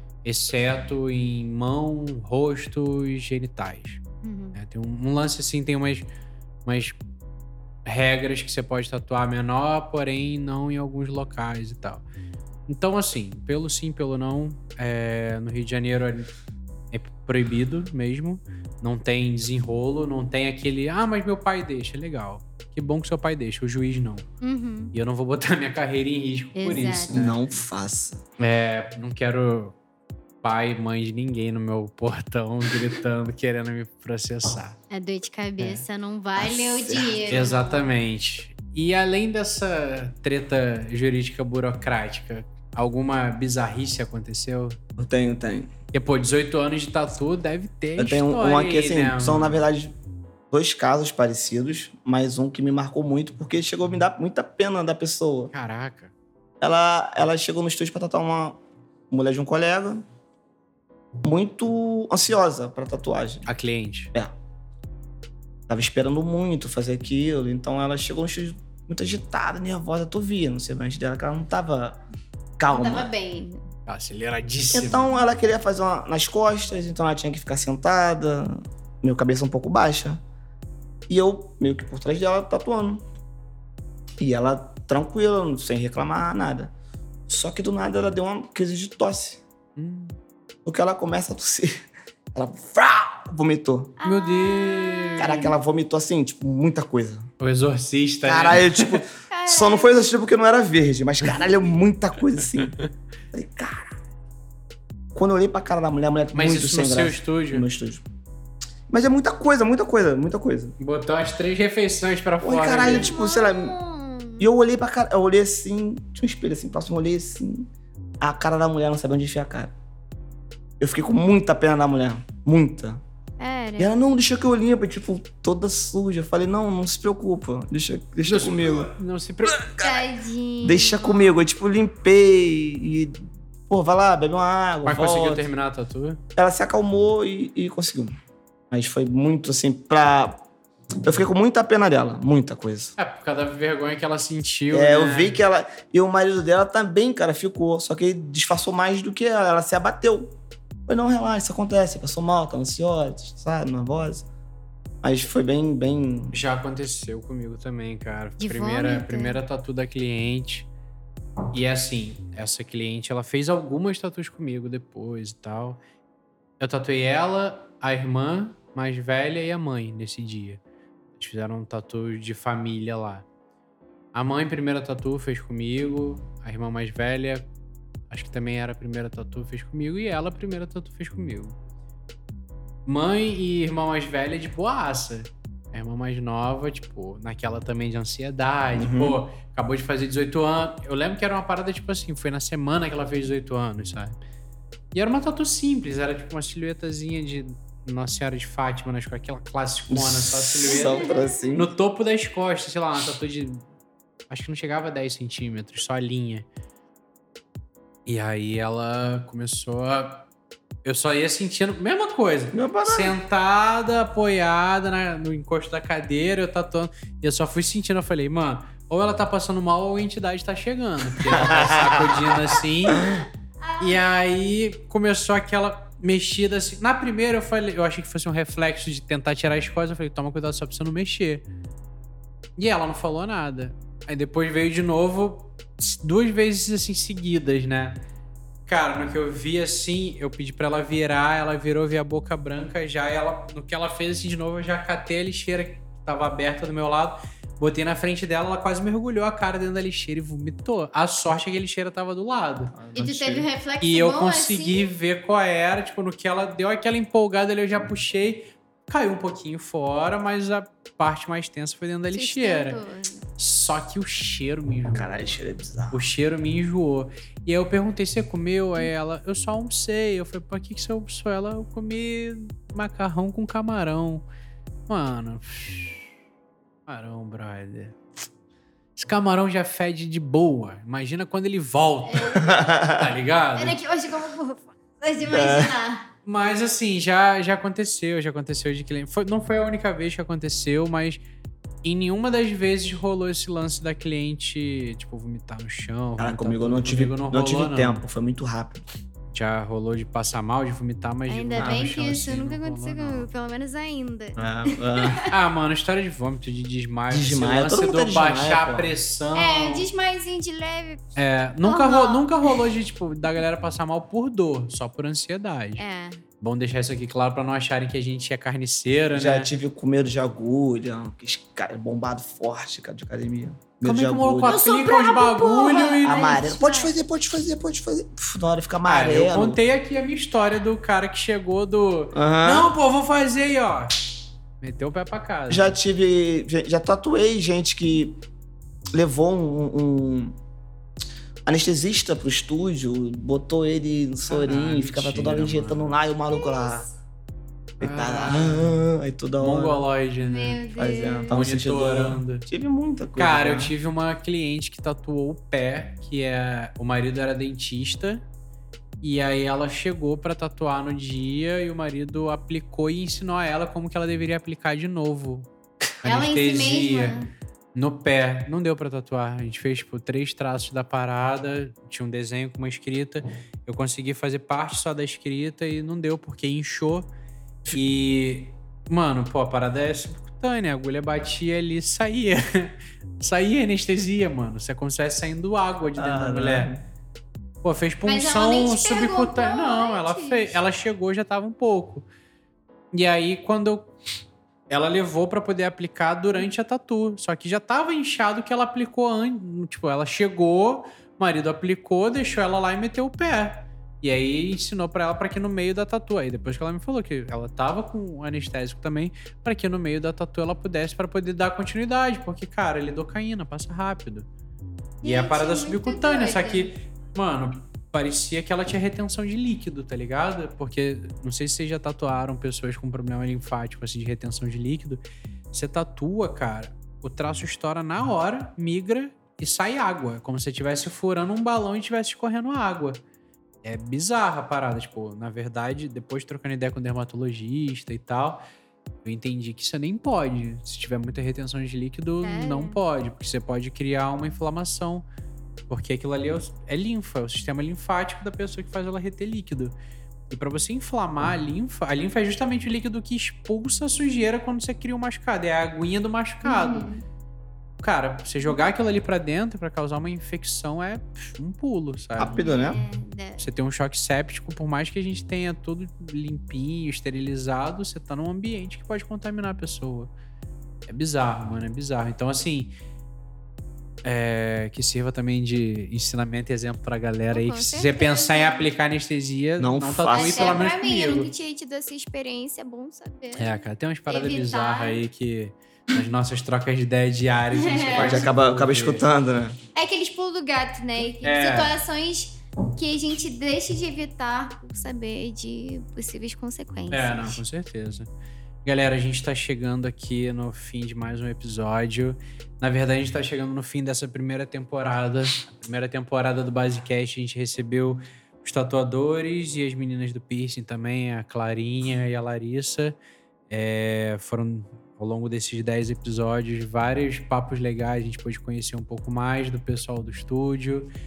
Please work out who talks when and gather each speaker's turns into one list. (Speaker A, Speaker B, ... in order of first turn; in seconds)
Speaker A: 0.2-4.0, 4.5-6.1, 6.7-7.0, 7.8-12.0, 12.7-16.3, 16.9-24.2, 24.9-27.5, 28.4-29.8, 30.4-34.8, 35.6-35.8, 37.3-44.8, 45.9-49.5, 55.5-56.1, 63.5-64.1, 73.8-75.1, 89.8-90.2, 94.0-95.5, 97.4-99.0, 102.6-102.9, 106.3-107.7, 110.8-113.1, 128.2-129.7, 134.8-136.2, 143.0-145.4, 156.3-160.7, 161.5-165.8, 166.6-170.6, 171.2-173.2, 174.1-177.5, 178.1-181.6, 182.8-194.2, 194.9-203.6, 204.3-206.4, 208.1-210.2, 210.8-223.1, 223.8-231.4, 232.6-238.0, 238.7-252.8, 253.8-262.8, 263.4-265.3, 265.9-274.2, 274.9-276.1, 276.9-278.1, 278.9-283.8, 286.2-291.2, 291.8-298.0, 299.3-303.3, 305.3-309.9, 311.1-315.8, 316.4-319.5, 323.8-326.3, 328.8-334.0, 334.6-335.7, 344.3-345.9, 347.8-348.7, 349.4-350.6, 351.3-352.5, 353.1-358.2, 359.0-365.5, 366.0-367.1, 367.7-377.1, 377.6-386.7, 387.6-392.1, 392.9-393.9, 394.7-414.3, 415.0-433.0, 433.6-438.4, 439.0-445.0, 445.7-449.7, 450.3-456.9, 457.8-462.4, 463.4-470.1, 470.9-472.7, 474.0-481.3, 483.4-489.0, 491.2-491.8, 496.9-498.1, 498.6-513.0, 513.5-520.9
Speaker B: 4.2-4.5, 24.4-24.9, 26.6-27.2, 34.9-37.8, 72.7-73.7, 94.0-95.5, 99.3-100.0, 112.7-114.5, 123.4-124.0, 129.8-131.4, 158.4-159.4, 200.7-201.3, 223.6-224.0, 252.9-254.9, 262.1-263.2, 282.0-282.7, 283.6-286.1, 301.3-305.3, 309.3-312.7, 315.8-316.2, 324.4-326.9, 346.3-346.9, 350.2-351.3, 366.0-367.3, 388.1-390.6, 415.0-416.7, 442.2-442.8, 456.4-457.0, 462.3-463.4, 477.3-478.7, 480.1-485.0, 487.5-488.2, 489.7-497.4
Speaker C: 27.1-28.2, 36.4-37.5, 45.0-45.7, 48.0-49.9, 50.5-55.5, 56.6-60.0, 61.2-63.5, 65.7-72.0, 72.6-73.1, 74.7-80.2, 81.1-83.0, 84.2-86.7, 87.3-89.4, 90.6-91.8, 92.3-94.0, 95.2-97.2, 98.2-102.8, 103.3-104.0, 105.1-108.0, 108.9-110.8, 112.4-113.8, 114.4-117.7, 118.2-119.7, 120.8-123.0, 123.8-128.9, 129.5-130.1, 130.6-135.4, 136.3-138.1, 138.7-140.4, 141.0-142.9, 144.7-150.3, 150.9-154.3, 155.0-156.4, 188.7-189.2, 199.9-201.7, 212.5-213.1, 221.3-223.2, 252.7-253.5, 264.9-266.1, 282.4-283.1, 285.3-285.8, 296.2-298.8, 301.6-302.0, 304.4-305.2, 307.1-308.9, 319.1-324.6, 325.8-329.6, 332.1-332.7, 335.5-338.2, 338.9-340.4, 341.4-346.9, 347.8-349.8, 350.8-353.7, 386.0-386.8, 462.2-462.8, 479.6-480.7, 487.9-489.6